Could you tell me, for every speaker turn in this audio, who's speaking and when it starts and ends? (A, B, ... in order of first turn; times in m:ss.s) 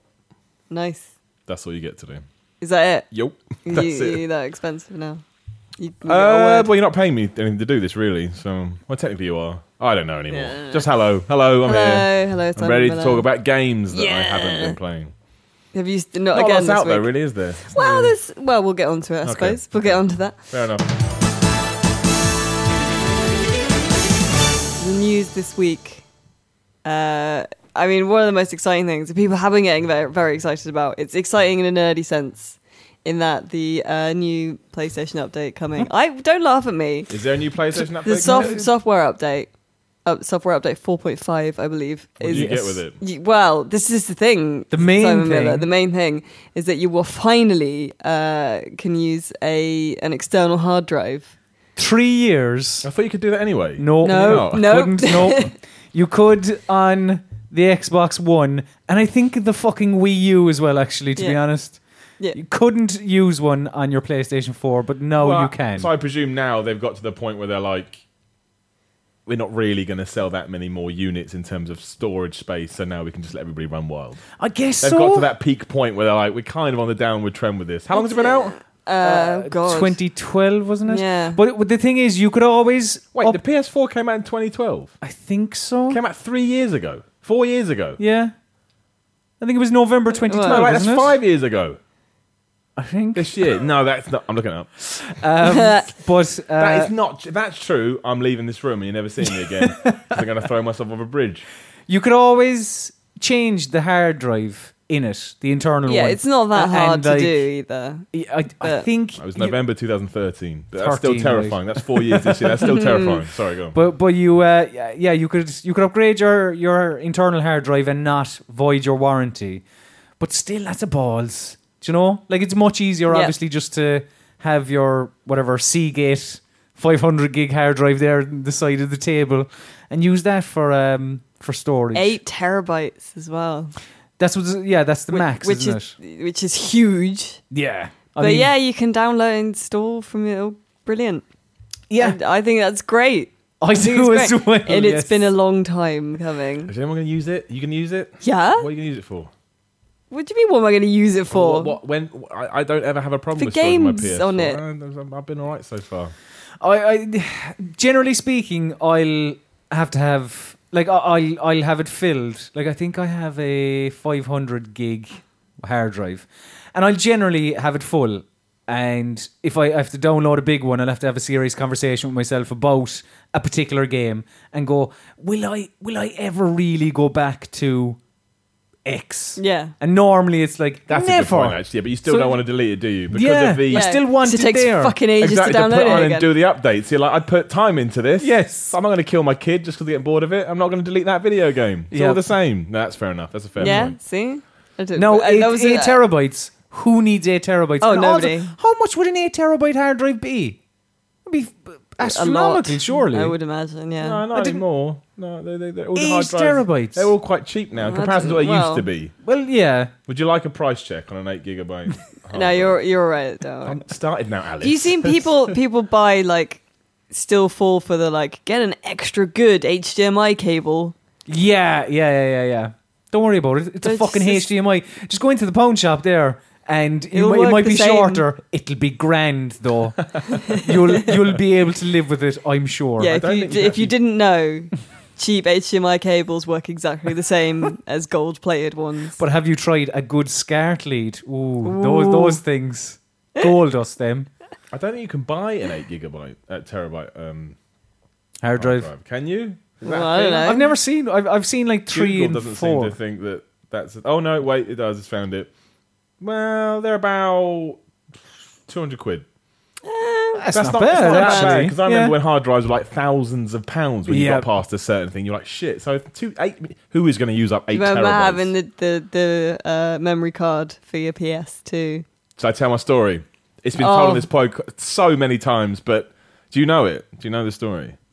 0:00.7-0:01.1 A
0:01.5-0:02.2 B
0:02.6-0:03.1 A
0:03.1-0:04.2 B
0:03.6-0:05.2 A
0:05.8-0:06.7 A
0:06.0-0:15.1 B
0:10.3-0:10.8 A
0:11.6-0:13.2 A
0:13.9-0:14.8 A
0:15.7-0:17.1 A
0:16.3-0:18.1 B
0:17.7-0:20.4 A
0:19.2-0:20.8 B
0:24.8-0:26.0 A
0:26.8-0:37.2 A
0:37.1-0:38.6 B
0:38.0-0:39.5 A
0:38.1-0:38.7 C
0:40.0-0:51.3 A
0:42.2-0:43.0 B
0:42.3-0:42.8 C
0:44.7-0:45.7 C
0:51.8-0:52.9 C
0:52.8-0:55.2 B
0:53.8-1:01.8 C
0:54.0-0:55.5 A
1:02.3-1:05.9 C
1:05.2-1:08.0 B
1:09.2-1:14.2 B
1:14.4-1:15.3 C
1:14.8-1:18.6 B
1:17.9-1:20.0 A
1:19.0-1:23.4 C
1:20.8-1:21.4 A
1:23.1-1:25.0 B
1:25.0-1:26.0 C
1:25.9-1:28.0 B
1:28.0-1:28.3 C
1:29.4-1:31.2 C
1:30.1-1:30.7 A
1:30.5-1:31.8 B
1:32.8-1:33.5 C
1:33.1-1:34.8 B
1:34.9-1:36.9 C
1:35.4-1:35.9 A
1:36.6-1:41.4 B
1:39.6-1:40.2 C
1:41.9-1:47.4 C
1:45.8-1:48.1 A
1:48.1-1:49.5 C
1:48.6-1:48.9 A
1:49.2-1:53.8 B
1:50.8-1:53.0 C
1:52.6-1:53.2 A
1:53.7-1:59.6 C
2:00.2-2:12.2 C
2:11.9-2:13.7 A
2:14.2-2:15.9 C
2:15.1-2:17.4 A
2:17.5-2:18.5 C
2:18.2-2:21.2 A
2:21.9-2:22.2 C
2:22.0-2:26.7 A
2:23.6-2:25.3 C
2:26.7-2:29.3 B
2:28.2-2:28.7 A
2:30.1-2:31.8 A
2:31.3-2:36.1 B
2:33.4-2:34.6 A
2:36.6-2:58.0 C
2:58.8-3:02.4 C
2:59.4-2:59.7 A
3:00.9-3:04.0 B
3:03.1-3:04.9 C
3:03.7-3:06.3 A
3:05.2-3:14.0 B
3:08.2-3:08.7 C
3:11.9-3:12.2 C
3:13.6-3:16.0 A
3:15.0-3:20.6 C
3:17.8-3:18.5 A
3:21.2-3:23.3 C
3:22.0-3:24.2 A
3:24.0-3:29.1 B
3:24.3-3:24.6 C
3:25.9-3:27.1 C
3:27.8-3:28.9 A
3:29.2-3:29.9 C
3:30.1-3:32.8 B
3:32.3-3:33.8 A
3:33.6-3:35.5 B
3:34.6-3:40.9 A
3:41.3-3:53.2 C
3:43.8-3:44.5 A
3:47.1-3:48.2 A
3:53.0-3:59.2 A
3:53.1-3:53.9 B
3:59.2-4:04.3 C
4:01.6-4:02.4 A
4:04.7-4:07.6 B
4:08.4-4:08.9 C
4:08.6-4:10.5 B
4:09.8-4:10.7 A
4:10.4-4:12.9 C
4:11.9-4:15.5 B
4:16.2-4:17.8 B
4:18.7-4:19.2 B
4:19.8-4:21.7 A
4:20.3-4:22.1 C
4:20.5-4:28.5 B
4:24.1-4:24.5 C
4:27.7-4:32.0 A
4:32.4-4:38.0 B
4:33.8-4:34.3 A